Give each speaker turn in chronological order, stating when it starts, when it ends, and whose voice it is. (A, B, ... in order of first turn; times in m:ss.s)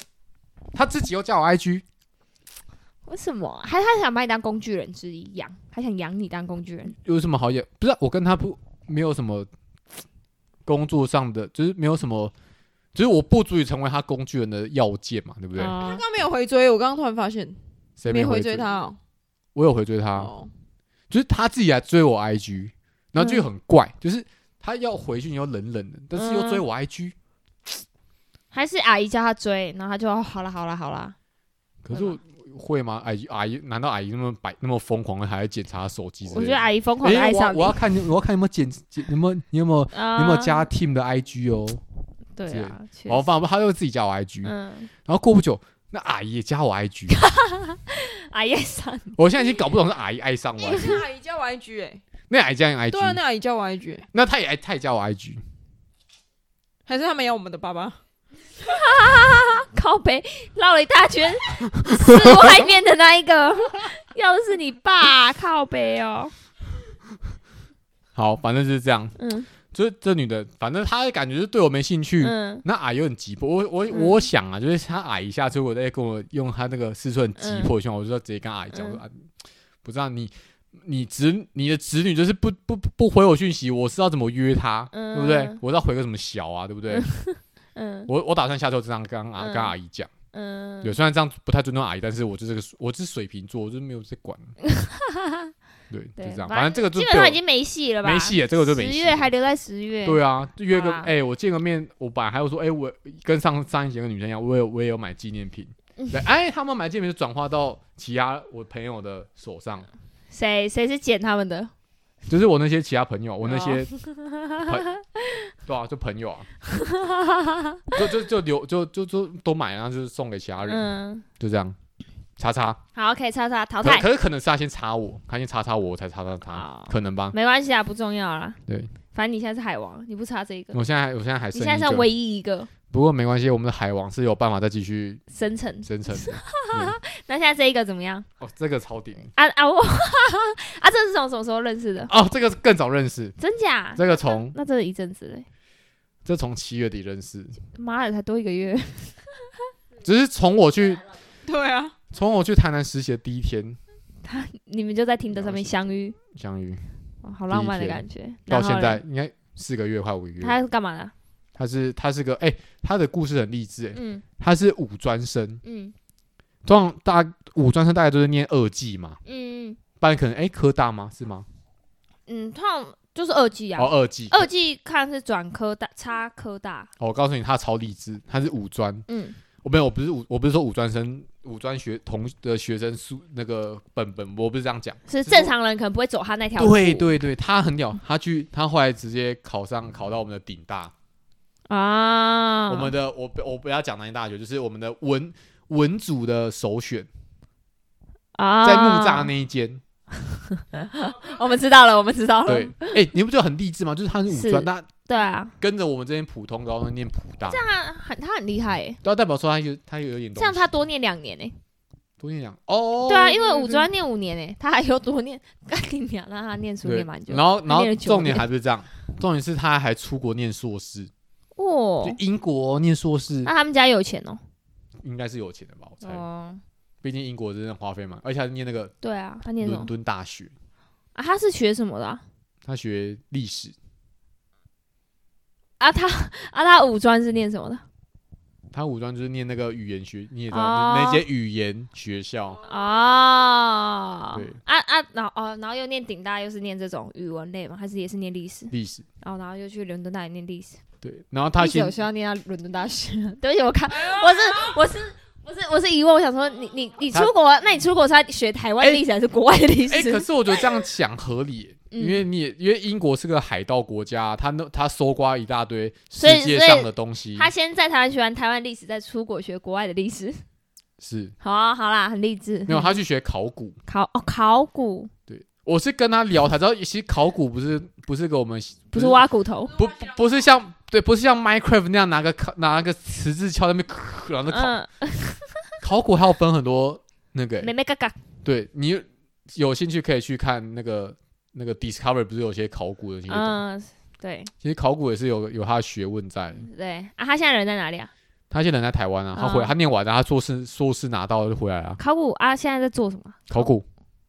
0:00.7-0:01.8 A
0:03.1-0:06.9 B
0:07.0-0:09.5 A
0:10.6-0:12.3 A
0:12.9-0:15.8 A
0:15.6-0:16.0 B
0:15.6-0:19.0 C
0:18.0-0:18.6 A
0:19.5-0:20.3 A
0:20.2-0:20.5 C
0:21.1-0:27.1 A
0:23.2-0:23.4 B
0:26.1-0:26.6 B
0:28.5-0:31.2 B
0:31.8-0:41.8 A
0:31.9-0:32.2 B
0:36.3-0:37.8 B
0:39.9-0:40.6 B
0:42.4-0:43.2 B
0:42.5-0:44.5 A
0:44.4-0:44.9 B
0:45.0-0:47.2 A
0:47.1-0:49.2 B
0:49.2-0:51.0 A
0:50.6-0:52.0 C
0:52.3-0:53.2 A
0:52.9-0:54.1 C
0:54.1-0:55.4 A
0:56.8-0:58.0 C
0:58.6-1:06.3 B
1:01.8-1:02.6 A
1:08.1-1:09.1 A
1:09.2-1:09.5 B
1:09.7-1:19.2 A
1:12.2-1:12.6 B
1:13.9-1:14.2 B
1:17.4-1:17.7 B
1:18.7-1:19.0 B
1:19.8-1:27.1 A
1:24.9-1:25.6 B
1:26.9-1:28.1 B
1:28.1-1:30.1 A
1:29.4-1:29.7 B
1:30.3-1:31.0 B
1:30.8-1:34.5 A
1:34.6-1:35.5 B
1:35.9-1:37.4 A
1:36.2-1:40.2 B
1:38.0-1:39.3 A
1:40.0-1:49.9 A
1:40.7-1:41.1 B
1:50.3-1:51.7 B
1:52.3-1:53.9 A
1:53.4-1:55.4 B
1:55.6-1:56.5 A
1:56.7-1:57.9 B
1:57.9-2:00.8 A
2:00.6-2:01.2 B
2:01.4-2:01.8 A
2:02.4-2:02.8 A
2:03.0-2:04.0 B
2:03.8-2:07.3 A
2:06.5-2:08.6 B
2:09.1-2:10.8 B
2:10.7-2:12.1 A
2:11.5-2:12.7 B
2:12.9-2:15.2 A
2:15.3-2:18.2 B
2:15.8-2:17.0 A
2:18.4-2:19.3 A
2:19.4-2:22.1 B
2:22.1-2:23.4 A
2:23.4-2:25.4 B
2:24.0-2:24.5 A
2:26.2-2:27.6 A
2:27.7-2:29.2 B
2:30.0-2:31.0 A
2:31.4-2:31.9 C
2:32.1-2:33.8 A
2:34.2-2:36.2 B
2:35.3-2:36.8 A
2:37.2-2:39.0 B
2:37.5-2:40.6 A
2:40.4-2:41.1 B
2:41.6-2:45.6 A
2:43.9-2:44.2 B
2:45.6-2:45.9 B
2:46.6-2:49.2 A
2:49.2-2:49.8 B
2:50.0-2:51.4 A
2:52.3-2:56.9 B
2:53.8-2:54.5 A
2:57.0-2:59.0 A
2:59.1-2:59.4 B
2:59.6-3:05.5 A
3:05.1-3:07.1 B
3:06.6-3:10.9 A
3:11.7-3:12.9 B
3:12.7-3:17.1 A
3:18.3-3:19.3 B
3:18.6-3:19.8 A
3:20.5-3:23.0 B
3:22.4-3:24.9 A
3:24.3-3:25.5 B
3:25.6-3:27.6 A
3:27.5-3:29.0 B
3:29.0-3:30.7 A
3:30.4-3:31.6 B
3:32.2-3:33.9 A
3:33.0-3:38.4 B
3:36.8-3:41.1 A
3:41.6-3:42.2 B
3:42.0-3:43.5 A
3:43.4-3:44.4 B
3:45.0-3:46.2 A
3:46.0-3:46.6 B
3:47.0-3:48.9 A
3:49.0-3:49.9 B
3:49.6-3:50.5 A
3:51.1-3:52.2 B
3:52.6-3:53.7 A
3:55.8-3:57.8 B
3:58.7-4:02.6 A
4:00.5-4:01.2 B
4:02.6-4:10.8 B
4:08.7-4:09.0 A
4:11.0-4:12.0 A
4:11.6-4:20.3 B
4:19.9-4:27.5 A
4:21.9-4:22.2 B
4:26.2-4:30.4 B
4:31.0-4:31.3 A
4:31.4-4:33.0 B
4:32.7-4:33.8 A
4:33.9-4:35.1 B
4:35.3-4:44.8 A
4:38.9-4:39.8 B
4:44.5-4:45.5 B
4:45.8-4:47.7 A
4:47.6-4:48.2 B
4:48.4-4:53.6 A
4:53.3-4:54.5 B
4:54.6-4:56.7 A
4:56.6-4:58.1 B
4:58.5-5:02.0 A
4:59.3-4:59.7 B
5:02.0-5:03.7 B
5:03.5-5:03.8 A